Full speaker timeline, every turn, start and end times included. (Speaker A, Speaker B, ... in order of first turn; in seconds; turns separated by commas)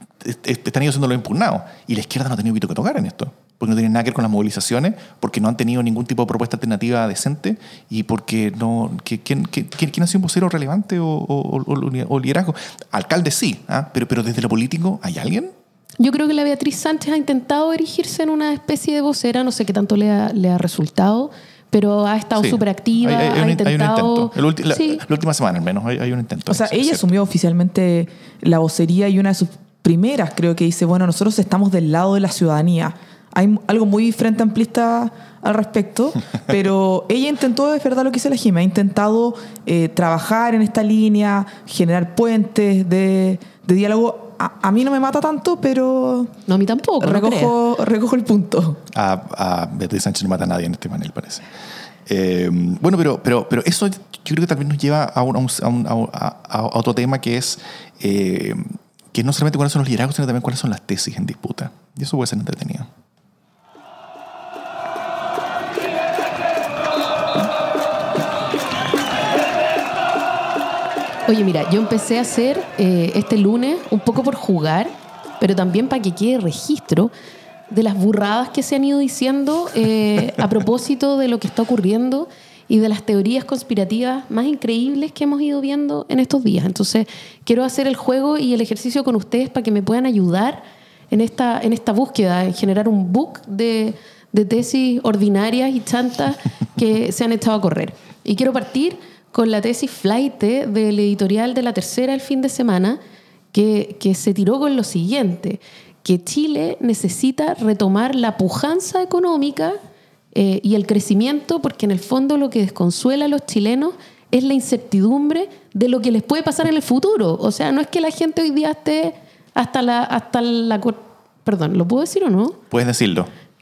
Speaker A: 0.2-15.5, Speaker B: 16.0-25.0, Speaker A: 22.4-27.1, Speaker C: 26.5-46.3, Speaker B: 46.5-47.5, Speaker C: 47.0-48.8, Speaker A: 48.9-51.5, Speaker A: 52.0-62.9, Speaker B: 71.2-77.1, Speaker B: 77.7-103.0, Speaker B: 103.5-109.8, Speaker B: 110.3-122.6, Speaker A: 122.7-123.3